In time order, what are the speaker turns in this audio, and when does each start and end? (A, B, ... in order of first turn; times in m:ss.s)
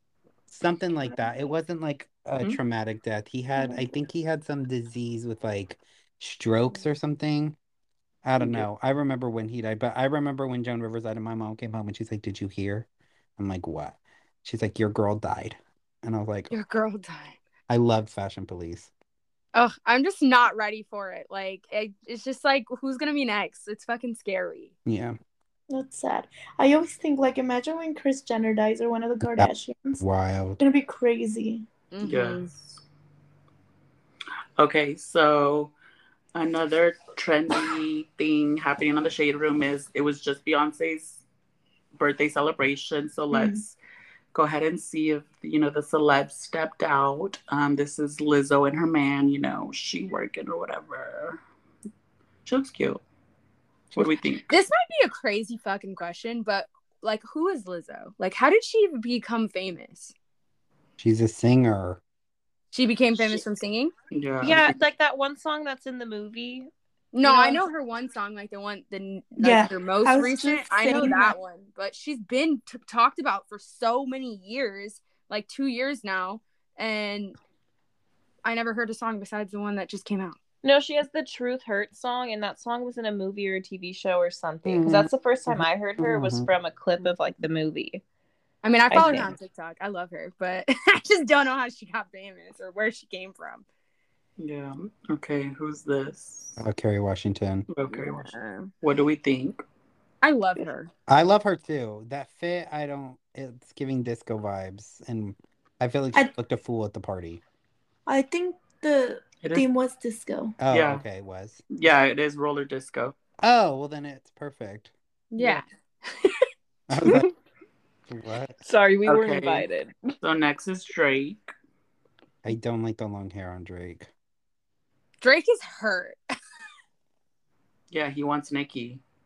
0:00.5-0:07.6 A
0:08.2-0:16.5 A
0:08.4-0:08.7 B
0:16.5-0:17.4 C
0:17.7-0:18.9 A
0:19.5-0:24.7 C
0:24.8-0:25.2 A
0:25.7-0:30.0 D
0:29.2-0:30.6 A
0:30.6-0:31.6 D
0:31.9-0:32.5 C
0:32.0-0:32.8 B
0:34.6-0:35.7 B
0:36.3-0:41.2 B
0:42.0-0:43.8 B
0:43.3-0:43.6 D
0:44.3-0:51.4 B
0:52.4-0:53.0 B
0:53.9-0:54.6 B
0:54.5-1:00.1 C
1:01.0-1:02.0 A
1:02.7-1:03.9 C
1:04.1-1:04.8 B
1:04.4-1:06.7 E
1:07.1-1:17.4 C
1:07.2-1:07.6 E
1:09.4-1:11.4 D
1:18.4-1:20.4 C
1:20.6-1:28.0 E
1:24.6-1:26.5 A
1:28.6-1:33.6 C
1:28.9-1:29.3 E
1:34.4-1:36.6 B
1:36.6-1:37.6 A
1:37.7-1:39.6 B
1:37.9-1:38.7 C
1:40.2-1:40.9 C
1:41.1-1:47.4 A
1:48.1-1:50.6 D
1:49.4-1:49.7 B
1:50.6-1:51.6 A
1:50.7-1:51.0 B
1:51.7-1:53.1 B
1:53.4-1:54.9 A
1:55.3-1:55.6 C
1:56.9-1:57.2 A
1:57.0-1:57.3 E
1:58.1-1:58.6 A
1:58.6-2:00.0 E
1:59.0-1:59.7 B
2:00.2-2:01.4 B
2:02.4-2:04.1 A
2:05.2-2:06.2 C
2:07.9-2:09.0 B